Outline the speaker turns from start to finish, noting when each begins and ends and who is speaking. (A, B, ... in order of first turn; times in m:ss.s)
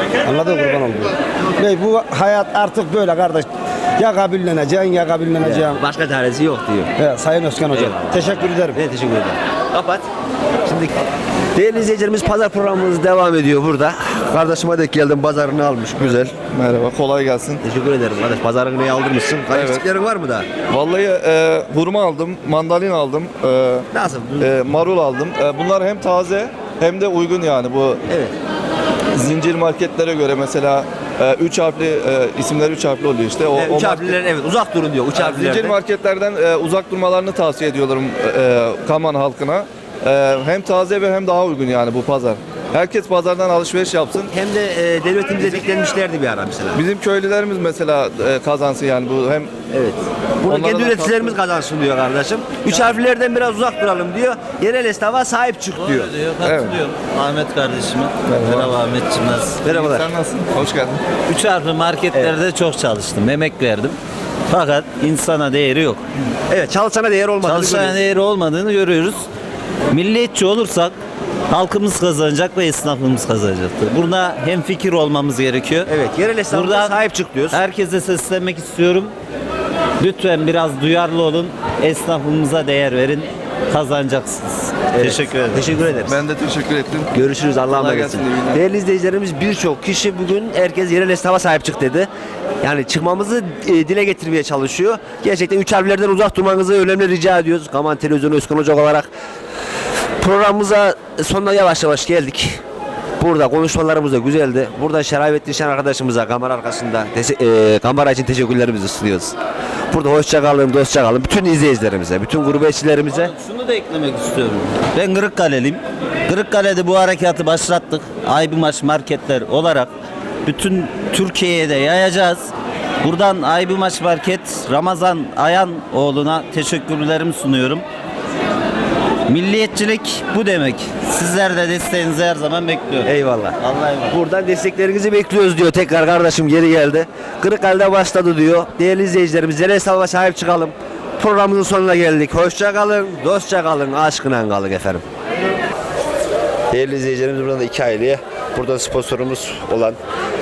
0:00.2-0:03.5 A
0:04.0-0:05.8 A
0:05.4-0:06.9 B
0:07.0-0:08.8 A
0:07.7-0:10.1 B
0:10.6-0:10.9 B
0:11.6-0:16.3 B
0:16.4-0:17.6 C
0:17.6-0:20.5 B
0:19.5-0:19.8 C
0:20.7-0:23.9 C
0:23.9-0:24.6 B
0:24.4-0:28.0 C
0:28.1-0:28.4 B
0:29.1-0:34.2 C
0:33.6-0:35.8 B
0:35.2-0:44.3 C
0:44.3-0:46.8 B
0:46.8-0:49.5 C
0:49.7-0:56.1 B
0:50.4-0:51.4 C
0:55.8-0:59.7 D
0:56.4-0:56.8 C
0:58.3-0:58.6 C
0:59.6-1:00.1 B
0:59.7-1:01.0 C
1:01.3-1:04.0 D
1:04.5-1:06.0 D
1:06.5-1:08.0 B
1:07.4-1:09.2 D
1:09.9-1:11.0 D
1:11.5-1:15.9 D
1:15.9-1:17.6 B
1:16.5-1:16.9 D
1:17.5-1:19.1 D
1:20.0-1:25.7 D
1:24.9-1:26.2 B
1:26.0-1:28.6 C
1:27.1-1:32.1 B
1:32.6-1:39.1 B
1:40.2-1:42.6 B
1:43.2-1:49.4 B
1:49.9-1:53.3 B
1:53.1-1:59.9 D
2:00.5-2:02.5 D
2:03.0-2:07.8 D
2:09.3-2:14.1 D
2:13.0-2:25.0 B
2:26.7-2:30.0 B